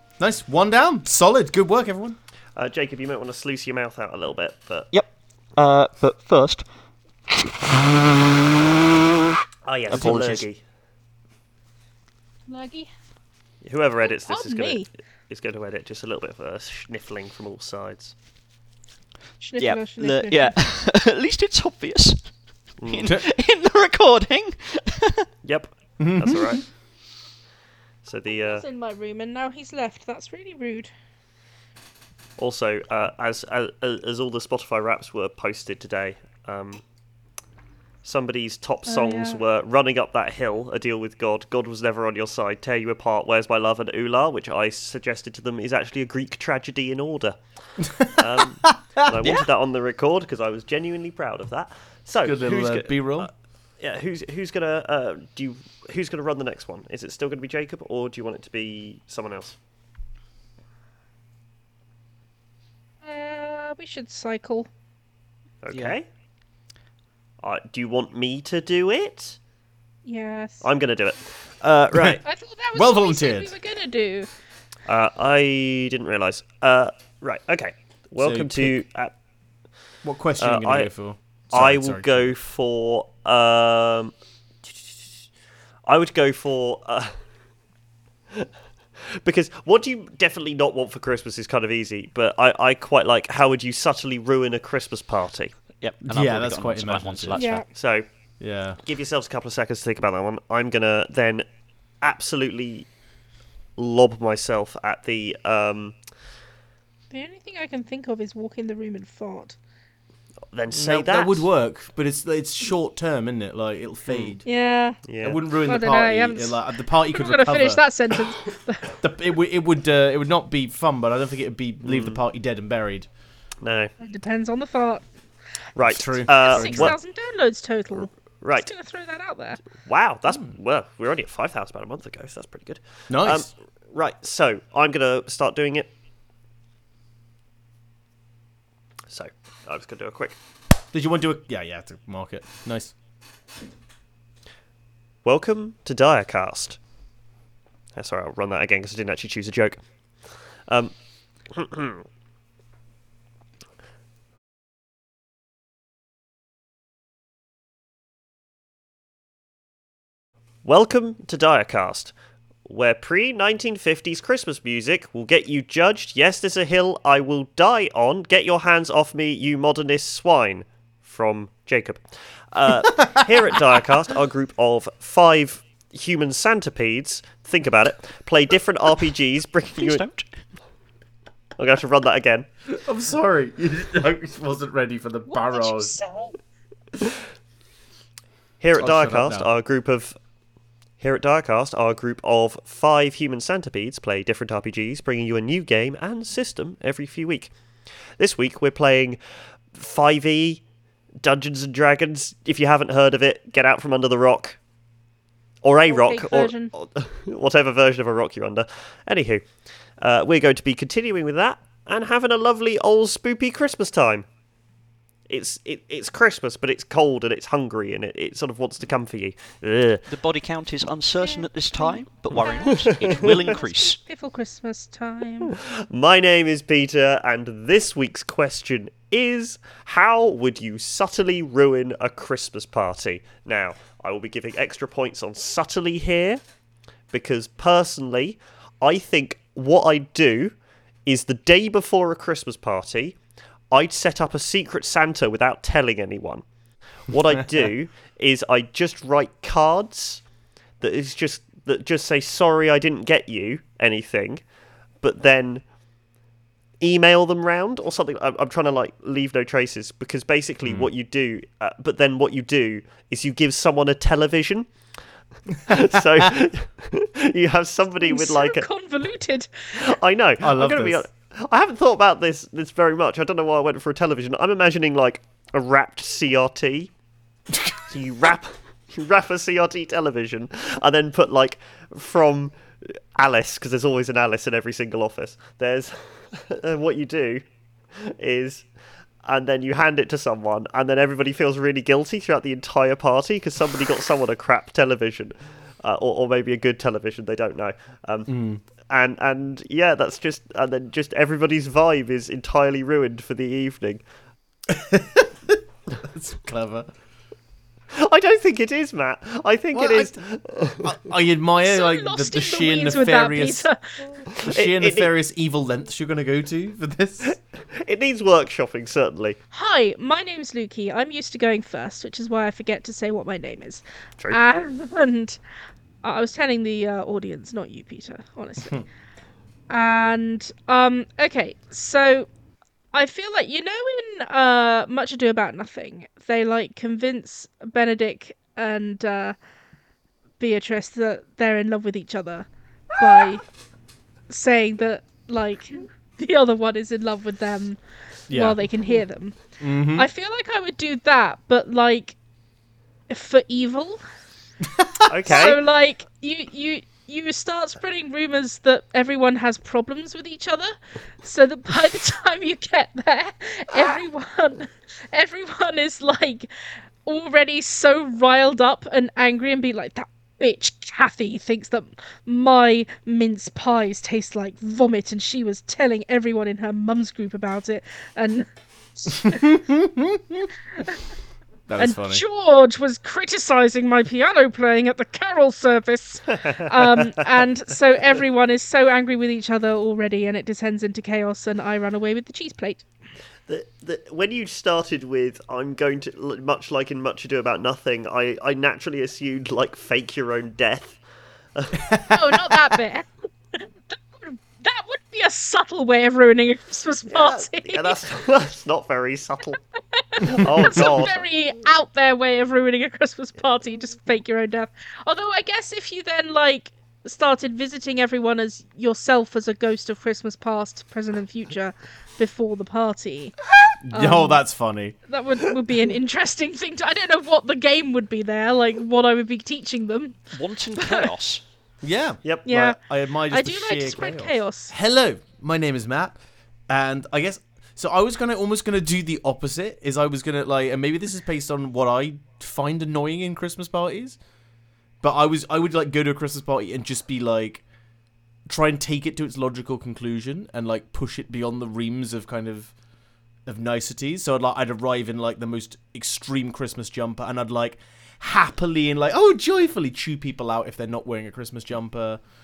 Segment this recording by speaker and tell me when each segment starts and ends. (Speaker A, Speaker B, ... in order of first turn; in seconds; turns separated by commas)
Speaker A: 0.2-2.2, Speaker B: 2.6-4.9, Speaker C: 4.9-6.7, Speaker C: 7.3-7.5, Speaker B: 9.7-10.6, Speaker A: 9.9-10.4, Speaker C: 9.9-10.4, Speaker D: 12.5-12.9, Speaker B: 13.6-18.1, Speaker D: 14.0-14.9, Speaker D: 19.4-20.6, Speaker C: 19.6-22.3, Speaker B: 22.8-23.1, Speaker C: 22.8-25.3, Speaker B: 25.4-26.6, Speaker A: 26.0-26.6, Speaker B: 28.0-28.6, Speaker D: 28.3-30.9, Speaker B: 32.4-36.8, Speaker B: 38.0-47.4, Speaker D: 38.9-39.4, Speaker A: 47.8-49.5, Speaker B: 48.0-59.6, Speaker A: 52.2-53.3, Speaker D: 63.0-64.7, Speaker B: 65.6-66.1, Speaker C: 65.7-66.0, Speaker B: 67.4-69.4, Speaker D: 70.0-70.7, Speaker B: 70.6-72.2, Speaker A: 71.9-72.2, Speaker D: 72.2-74.3, Speaker A: 72.8-73.5, Speaker B: 74.9-79.1, Speaker A: 78.2-78.8, Speaker A: 80.0-82.3, Speaker B: 80.4-80.9, Speaker B: 81.5-84.1, Speaker B: 85.9-87.1, Speaker B: 89.1-95.5, Speaker C: 95.8-97.6, Speaker A: 96.1-97.5, Speaker D: 97.3-97.7, Speaker B: 97.7-98.1, Speaker A: 98.4-98.8, Speaker B: 98.8-101.5, Speaker B: 102.0-102.9, Speaker B: 103.8-106.0, Speaker D: 107.1-109.6, Speaker B: 110.5-111.5, Speaker A: 110.7-114.4, Speaker B: 114.1-114.4, Speaker D: 114.5-115.0, Speaker B: 115.0-115.4, Speaker A: 115.2-117.8, Speaker D: 115.6-119.0, Speaker A: 119.0-123.1, Speaker B: 121.8-122.2, Speaker B: 123.6-123.9, Speaker D: 124.0-125.0, Speaker B: 125.8-127.0, Speaker A: 125.8-127.0, Speaker D: 126.3-129.6, Speaker B: 128.4-128.7, Speaker B: 129.8-135.9, Speaker A: 133.1-133.5, Speaker B: 139.1-140.4, Speaker A: 140.9-142.9, Speaker B: 145.2-146.8, Speaker B: 147.9-149.8, Speaker B: 150.7-150.9, Speaker B: 151.5-152.1, Speaker B: 160.6-162.2, Speaker B: 162.7-180.0, Speaker C: 179.8-180.4, Speaker B: 181.6-182.5, Speaker A: 182.7-185.9, Speaker D: 185.3-186.3, Speaker B: 188.6-190.2, Speaker A: 188.8-189.5, Speaker B: 191.0-197.5, Speaker B: 198.2-199.2, Speaker B: 199.7-200.6, Speaker B: 201.2-204.6, Speaker B: 205.6-209.5, Speaker D: 205.9-206.7, Speaker B: 210.0-214.3, Speaker B: 215.3-220.0, Speaker C: 220.1-224.0, Speaker D: 221.2-225.6, Speaker B: 222.7-223.1, Speaker B: 225.5-236.4, Speaker B: 237.1-243.2, Speaker B: 243.7-246.5, Speaker B: 247.1-250.2, Speaker B: 250.8-254.4, Speaker B: 255.0-255.6, Speaker B: 256.8-264.7, Speaker B: 265.7-268.7, Speaker D: 268.0-269.9, Speaker B: 269.8-276.9, Speaker A: 270.4-271.0, Speaker B: 277.9-287.4, Speaker B: 288.0-288.7, Speaker B: 289.2-298.3, Speaker A: 298.3-298.6, Speaker B: 298.9-304.0, Speaker A: 304.7-306.9, Speaker B: 307.9-310.9, Speaker A: 309.7-310.2, Speaker A: 310.8-313.7, Speaker D: 311.6-314.3, Speaker A: 314.4-317.3, Speaker B: 314.4-315.1, Speaker B: 317.2-319.4, Speaker D: 319.5-325.4, Speaker D: 326.0-328.8, Speaker D: 329.7-332.3, Speaker D: 332.9-339.4, Speaker D: 340.4-343.4, Speaker D: 344.3-347.8, Speaker A: 348.3-348.6, Speaker D: 348.3-349.4, Speaker A: 349.6-350.1, Speaker D: 349.9-352.2, Speaker D: 353.1-354.0, Speaker A: 354.7-355.1, Speaker B: 355.1-355.6, Speaker D: 355.3-366.5, Speaker D: 367.1-379.6, Speaker A: 379.4-380.5, Speaker A: 381.7-382.2, Speaker D: 381.8-392.9, Speaker B: 386.3-387.3, Speaker B: 393.5-401.0, Speaker B: 401.5-402.4, Speaker A: 401.9-402.1, Speaker D: 402.1-403.1, Speaker D: 404.2-408.0, Speaker B: 407.1-409.6, Speaker D: 410.0-423.4, Speaker B: 410.2-411.2, Speaker A: 423.8-425.0, Speaker D: 423.9-424.4, Speaker D: 425.1-430.2, Speaker C: 430.3-431.4, Speaker D: 430.8-431.1, Speaker A: 431.8-436.1, Speaker D: 432.5-432.8, Speaker D: 433.3-434.7, Speaker A: 436.7-444.2, Speaker A: 445.0-447.6, Speaker A: 448.5-452.7, Speaker A: 453.5-462.2